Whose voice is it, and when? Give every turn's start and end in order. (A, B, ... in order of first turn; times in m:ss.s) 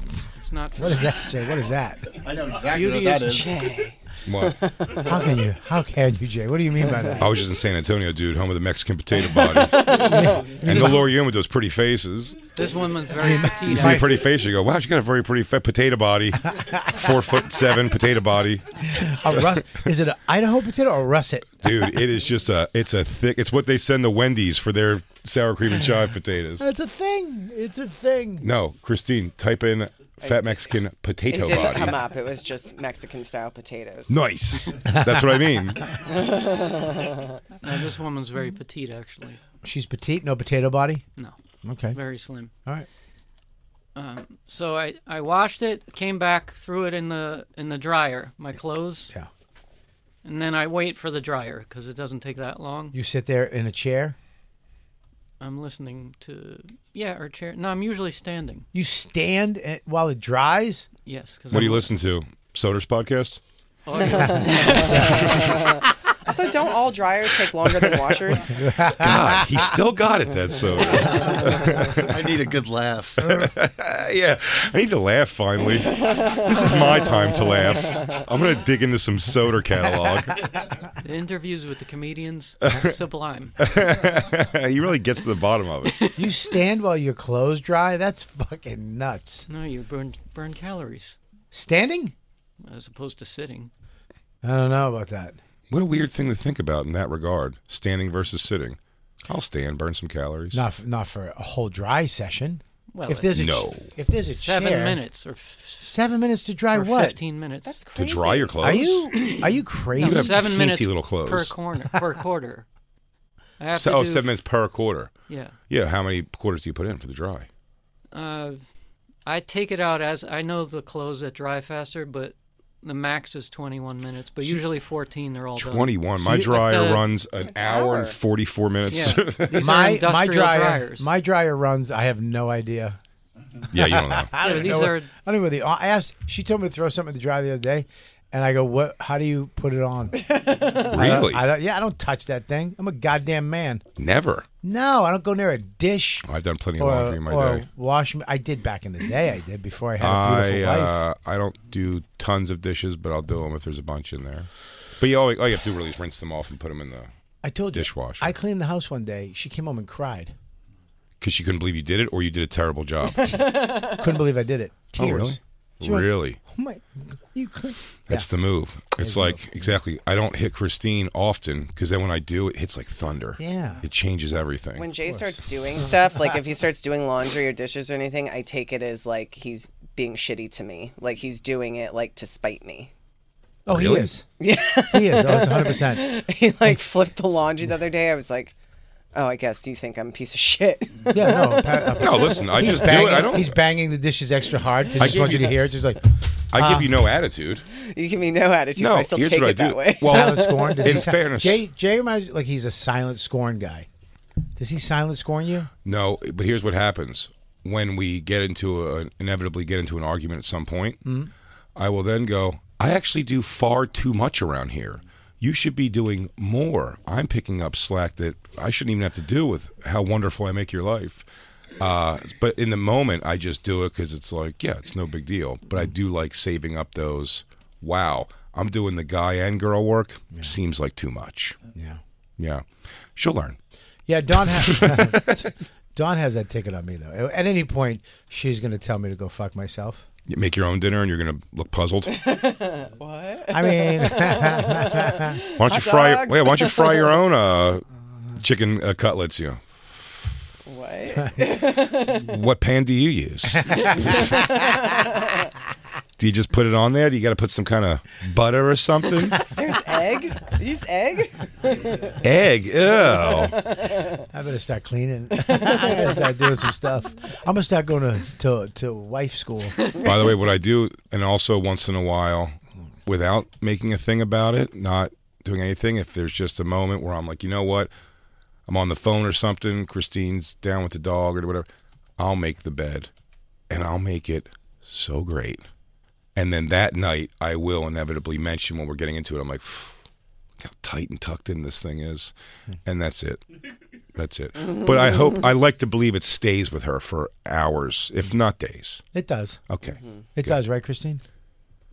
0:00.4-0:01.2 A
0:00.8-0:02.2 B
0:02.1-0:03.6 C
0:02.7-0:03.5 A
0:03.2-0:05.3 D
0:04.3-0:04.6 E
0:05.0-0:07.3 B
0:07.2-0:10.0 E
0:09.3-0:10.6 D
0:09.9-0:11.1 B
0:10.6-0:12.5 E
0:10.6-0:11.0 A
0:12.6-0:14.0 A
0:13.2-0:14.2 B
0:13.7-0:19.6 E
0:16.5-0:16.8 B
0:18.8-0:21.8 B
0:21.6-0:26.6 E
0:26.6-0:28.4 B
0:28.4-0:32.0 E
0:30.2-0:30.6 D
0:31.3-0:34.2 D
0:34.1-0:35.8 E
0:34.8-0:35.4 B
0:35.9-0:37.4 D
0:37.6-0:39.4 A
0:39.6-0:41.0 B
0:41.6-0:42.0 B
0:41.9-0:42.5 A
0:44.0-0:49.1 A
0:50.2-0:53.0 A
0:52.9-0:54.2 B
0:55.4-0:58.7 A
0:58.7-1:00.9 B
1:01.1-1:01.9 A
1:01.5-1:03.4 E
1:03.9-1:05.5 A
1:04.1-1:05.8 B
1:04.4-1:08.6 D
1:07.8-1:08.1 E
1:08.4-1:09.7 B
1:09.0-1:12.2 E
1:11.1-1:13.3 C
1:13.2-1:20.5 E
1:16.0-1:17.1 D
1:21.0-1:23.6 A
1:23.6-1:25.9 E
1:26.2-1:29.5 B
1:29.5-1:31.2 A
1:31.5-1:32.1 B
1:32.6-1:33.7 A
1:34.4-1:35.4 B
1:35.7-1:38.8 E
1:39.3-1:40.6 E
1:40.5-1:45.0 B
1:42.9-1:43.4 A
1:43.4-1:43.9 E
1:44.4-1:45.9 A
1:45.8-1:47.2 B
1:46.7-1:47.8 A
1:47.6-1:48.9 D
1:48.0-1:49.1 E
1:48.6-1:50.8 B
1:50.0-1:51.5 E
1:50.0-1:52.6 A
1:53.6-1:54.3 A
1:53.8-1:55.1 E
1:55.3-1:55.6 A
1:55.7-1:57.5 E
1:58.1-1:58.6 A
1:59.3-2:07.0 A
2:05.6-2:09.7 E
2:07.4-2:08.2 D
2:08.9-2:11.1 A
2:09.5-2:13.0 B
2:13.7-2:14.3 E
2:13.7-2:23.8 B
2:14.4-2:15.1 A
2:20.2-2:21.2 D
2:20.8-2:21.4 E
2:24.0-2:24.5 E
2:24.6-2:26.3 B
2:26.2-2:27.6 E
2:26.8-2:31.0 B
2:30.0-2:37.1 E
2:37.4-2:40.3 B
2:37.7-2:38.3 E
2:41.2-2:43.4 E
2:43.2-2:44.0 D
2:43.8-2:48.3 B
2:45.0-2:46.4 E
2:48.1-2:54.9 E
2:49.0-2:49.8 B
2:53.4-2:53.8 B
2:54.8-3:02.9 D
2:55.1-2:56.2 B
3:03.7-3:04.3 B
3:03.7-3:04.1 E
3:04.4-3:08.6 D
3:04.9-3:06.2 B
3:09.1-3:13.1 D
3:11.1-3:17.0 B
3:12.0-3:13.6 E
3:15.0-3:15.6 E
3:16.5-3:17.6 E
3:17.8-3:21.1 D
3:18.8-3:21.6 E
3:20.0-3:23.9 B
3:24.6-3:25.7 B
3:25.8-3:31.0 E
3:31.0-3:31.3 B
3:31.8-3:41.2 E
3:41.8-3:51.6 E
3:51.8-3:52.0 B
3:52.4-3:52.6 E
3:53.2-3:53.6 E
3:54.1-4:00.1 B
3:54.4-3:55.4 E
4:00.3-4:02.2 E
4:02.1-4:07.2 D
4:03.5-4:05.4 B
4:05.6-4:07.8 E
4:08.4-4:10.1 E
4:10.7-4:12.3 D
4:12.3-4:14.3 E
4:13.5-4:14.4 B
4:14.0-4:15.5 D
4:16.2-4:19.5 E
4:19.4-4:22.2 D
4:22.2-4:23.6 E
4:22.9-4:24.3 D
4:24.3-4:29.8 B
4:25.4-4:26.2 D
4:30.0-4:32.6 E
4:33.1-4:37.9 E
4:38.7-4:41.7 E
4:42.2-4:43.1 E
4:43.7-4:45.6 E
4:46.4-4:50.0 E
4:50.6-4:52.3 E
4:52.8-4:53.4 E
4:54.2-4:59.0 E
4:54.8-4:55.2 D
4:59.1-4:59.6 B
4:59.7-5:00.6 E
4:59.8-5:00.2 D
5:00.4-5:01.2 B